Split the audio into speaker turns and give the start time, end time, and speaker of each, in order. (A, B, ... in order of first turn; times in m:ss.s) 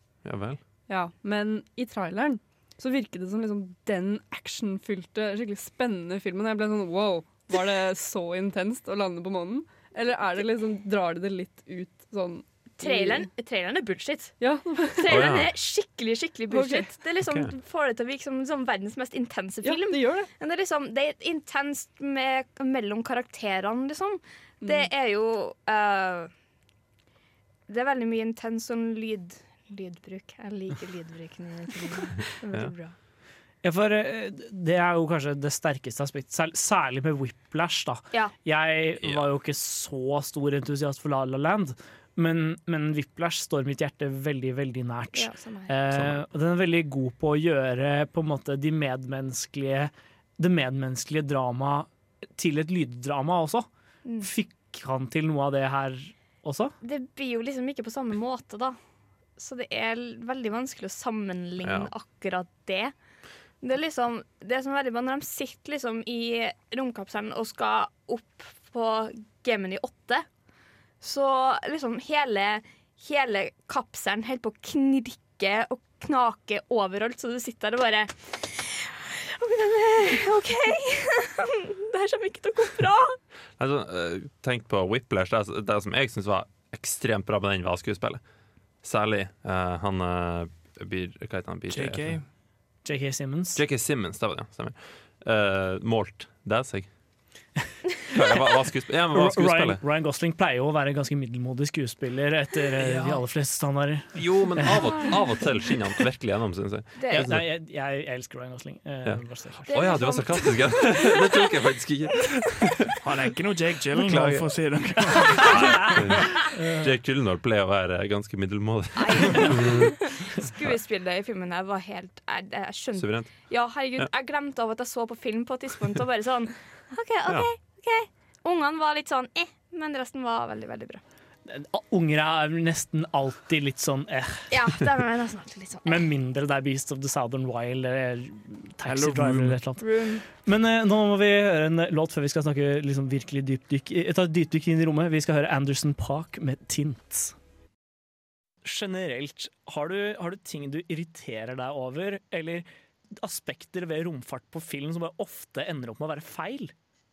0:00.2-0:00.6 A
0:00.9-0:13.3 B
0:12.8-0:14.4 C
0:14.4-0:15.3 B
0:15.0-0:26.3 C
0:15.1-0:15.5 A
0:16.5-0:16.9 B
0:17.2-0:17.5 A
0:19.6-0:20.3 B
0:24.6-0:24.9 B
0:27.7-0:32.9 C
0:33.6-0:53.7 D
0:45.1-0:45.7 C
0:45.9-0:46.2 A
0:54.2-0:56.7 D
0:56.8-0:58.8 C
0:59.4-1:02.9 C
1:01.6-1:01.9 A
1:03.6-1:10.2 C
1:11.0-1:23.2 C
1:23.6-1:28.2 A
1:28.8-1:32.2 A
1:31.7-1:32.2 E
1:32.8-1:33.6 D
1:33.6-1:36.9 A
1:38.1-1:39.8 A
1:39.1-1:45.0 D
1:42.9-1:43.1 A
1:44.1-1:47.4 A
1:47.0-1:47.2 C
1:47.1-1:49.7 D
1:49.0-1:52.9 A
1:49.7-1:51.2 C
1:53.0-1:55.6 E
1:53.9-1:54.6 A
1:55.1-1:59.9 A
1:56.5-1:56.9 D
1:59.0-2:11.0 C
2:03.0-2:03.3 A
2:11.5-2:14.5 D
2:14.5-2:16.0 C
2:15.8-2:27.3 D
2:18.8-2:19.6 E
2:19.8-2:20.2 C
2:28.6-2:32.7 D
2:33.2-2:36.7 D